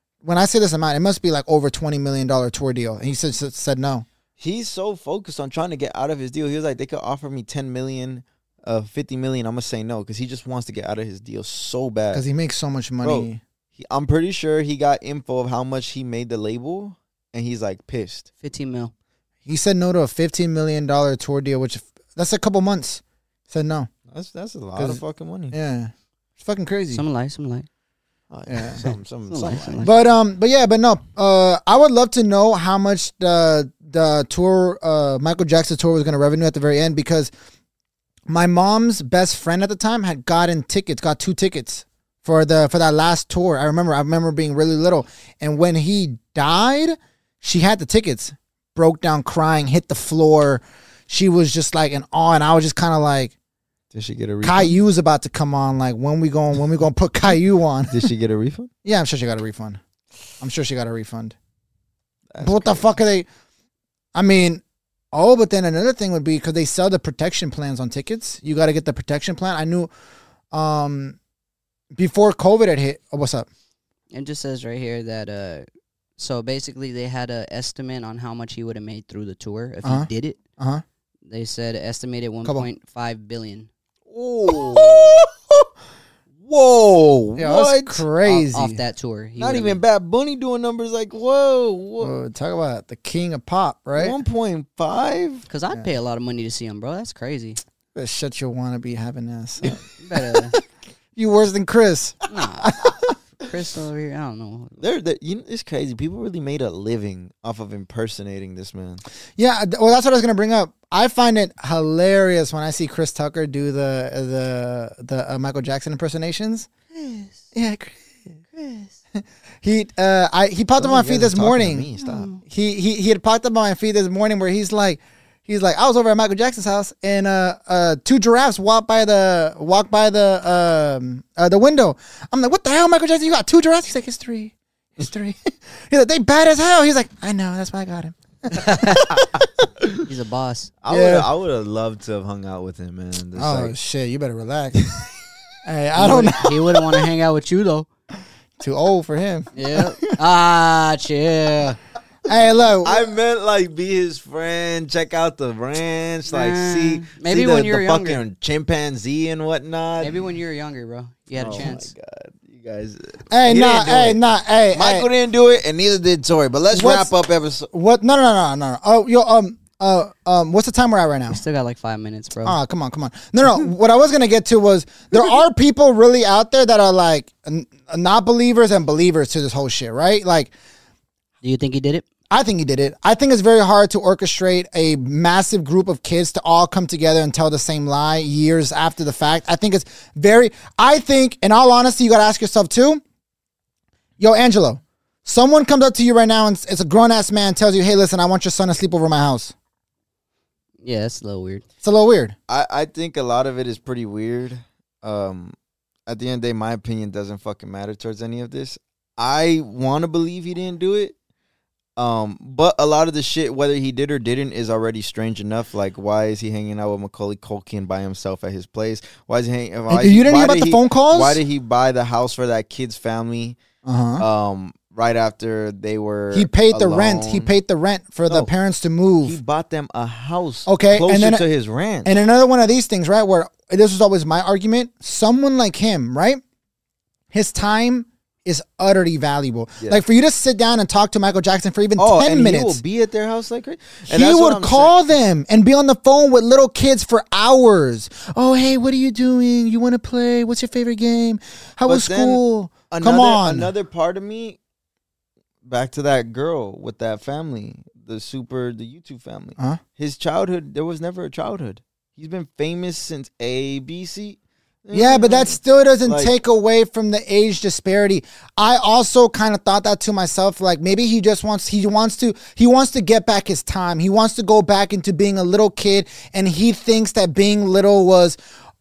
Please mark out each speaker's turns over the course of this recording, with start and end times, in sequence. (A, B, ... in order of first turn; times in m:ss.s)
0:00.2-0:04.1 A
0:04.4-0:12.2 B
0:12.1-0:13.4 A
0:13.0-0:18.3 B
0:18.4-0:18.9 C
0:19.5-0:23.9 A
0:24.1-0:25.6 B
0:24.8-0:27.0 A
0:26.9-0:27.7 C
0:28.3-0:30.1 B
0:28.5-0:28.8 A
0:29.3-0:29.9 C
0:29.8-0:37.3 A
0:38.3-0:53.3 A
0:53.9-0:54.7 B
0:54.4-0:58.1 A
0:57.9-0:58.7 B
0:58.8-0:59.8 A
1:00.4-1:01.4 A
1:02.3-1:03.0 B
1:02.4-1:03.3 A
1:04.1-1:09.9 A
1:10.5-1:11.2 A
1:11.9-1:13.5 A
1:14.1-1:15.7 C
1:16.2-1:20.4 C
1:19.8-1:20.8 A
1:21.3-1:23.7 C
1:24.1-1:25.3 B
1:26.4-1:28.1 B
1:27.4-1:28.8 A
1:28.2-1:29.8 C
1:29.4-1:32.2 B
1:32.0-1:34.2 A
1:34.0-1:35.5 B
1:35.5-1:37.6 C
1:38.0-1:40.6 A
1:39.9-1:40.6 C
1:41.2-1:43.2 A
1:42.3-1:44.8 C
1:44.8-1:49.0 B
1:49.4-1:56.7 A
1:56.9-1:57.4 C
1:57.5-1:58.0 A
1:58.5-1:58.9 C
1:59.2-2:01.9 A
2:00.8-2:02.3 B
2:02.0-2:02.4 C
2:02.4-2:19.3 A
2:18.6-2:19.0 C
2:20.0-2:20.7 C
2:20.8-2:23.7 B
2:20.9-2:21.3 A
2:23.4-2:24.9 A
2:25.6-2:26.9 A
2:26.0-2:27.9 C
2:28.6-2:30.1 A
2:29.6-2:31.8 C
2:32.3-2:33.0 A
2:32.8-2:40.3 B
2:36.3-2:38.2 C
2:40.0-2:41.9 C
2:41.4-2:44.2 B
2:43.3-2:45.1 A
2:44.7-2:47.7 B
2:46.7-2:47.1 A
2:47.7-2:51.4 A
2:51.3-2:52.6 C
2:52.4-3:00.5 A
3:01.4-3:02.0 C
3:02.3-3:13.0 A
3:14.2-3:19.5 A
3:20.8-3:21.6 C
3:21.8-3:22.4 A
3:22.5-3:25.6 B
3:26.1-3:31.2 B
3:32.0-3:43.6 B
3:39.9-3:41.4 A
3:43.8-3:44.2 A
3:44.2-3:47.5 B
3:46.3-3:49.4 A
3:49.2-3:52.1 B
3:50.7-3:51.4 A
3:52.0-3:56.4 A
3:57.3-4:02.8 A
4:02.0-4:05.0 B
4:04.1-4:13.7 A
4:11.8-4:14.6 B
4:15.6-4:26.3 B
4:24.9-4:38.4 A